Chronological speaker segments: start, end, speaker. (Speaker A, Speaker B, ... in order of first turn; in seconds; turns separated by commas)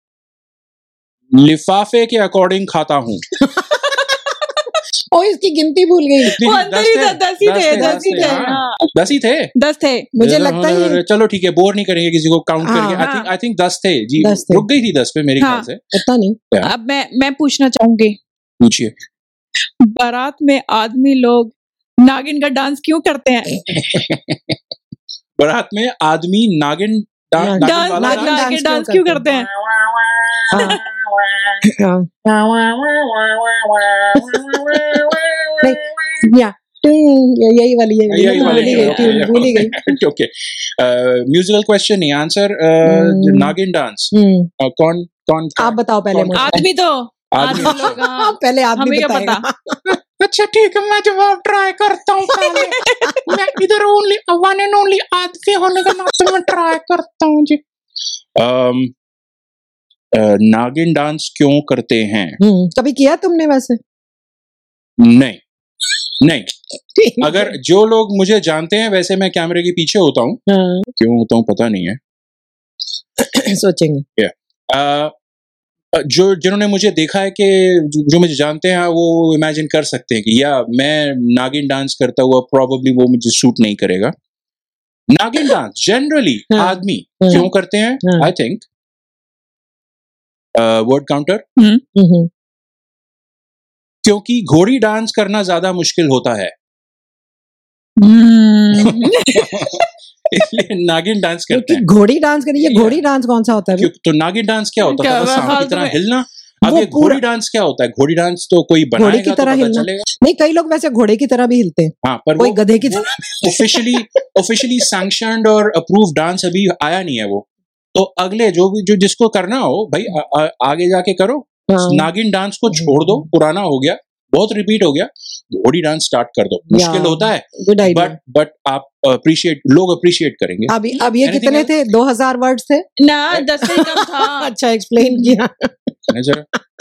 Speaker A: 1.3-3.2, Speaker B: 3.4-4.0, Speaker C: 3.8-4.8, Speaker B: 5.1-6.4, Speaker A: 6.3-9.5, Speaker C: 6.4-8.9, Speaker B: 7.7-8.5, Speaker C: 9.6-10.1, Speaker B: 10.2-11.0, Speaker A: 10.2-15.8, Speaker B: 12.6-13.0, Speaker C: 13.0-13.3, Speaker B: 14.2-14.7, Speaker C: 15.4-15.7, Speaker B: 15.9-16.4, Speaker C: 16.6-18.2, Speaker A: 18.6-18.9, Speaker C: 19.8-23.6, Speaker A: 23.7-24.6, Speaker A: 25.4-28.5, Speaker B: 27.4-29.2, Speaker C: 27.5-29.5, Speaker A: 29.2-31.7, Speaker B: 30.5-30.8, Speaker B: 31.6-32.1, Speaker A: 32.2-36.2, Speaker B: 35.6-39.8, Speaker A: 38.1-46.6, Speaker C: 38.4-39.5, Speaker B: 42.8-43.5, Speaker B: 44.1-44.5, Speaker B: 45.6-46.6, Speaker C: 46.4-49.4, Speaker A: 47.3-48.0, Speaker B: 47.5-50.0, Speaker A: 50.2-57.6, Speaker C: 52.3-53.2, Speaker A: 58.4-58.9, Speaker A: 60.1-62.4, Speaker B: 62.4-63.8, Speaker A: 65.0-65.4, Speaker A: 66.2-66.5, Speaker B: 67.0-67.5, Speaker A: 67.2-70.4, Speaker B: 70.5-70.9, Speaker A: 71.0-72.0, Speaker B: 73.2-74.0, Speaker A: 74.2-75.1, Speaker A: 75.9-84.1, Speaker A: 85.1-88.6, Speaker B: 86.5-87.4, Speaker B: 88.0-88.3, Speaker A: 90.5-91.4, Speaker C: 91.6-91.8, Speaker B: 91.9-92.3, Speaker A: 94.0-96.5, Speaker C: 98.0-99.9, Speaker A: 98.7-101.8, Speaker B: 101.5-103.9, Speaker A: 102.6-103.0, Speaker A: 103.8-110.0, Speaker C: 104.8-106.0, Speaker B: 106.6-107.2, Speaker B: 109.0-113.8, Speaker A: 112.0-131.7, Speaker C: 113.1-113.6, Speaker B: 121.7-122.1, Speaker B: 122.7-123.2, Speaker B: 126.7-128.2, Speaker B: 130.7-132.8, Speaker C: 133.0-135.4, Speaker B: 133.6-136.1, Speaker A: 136.1-136.4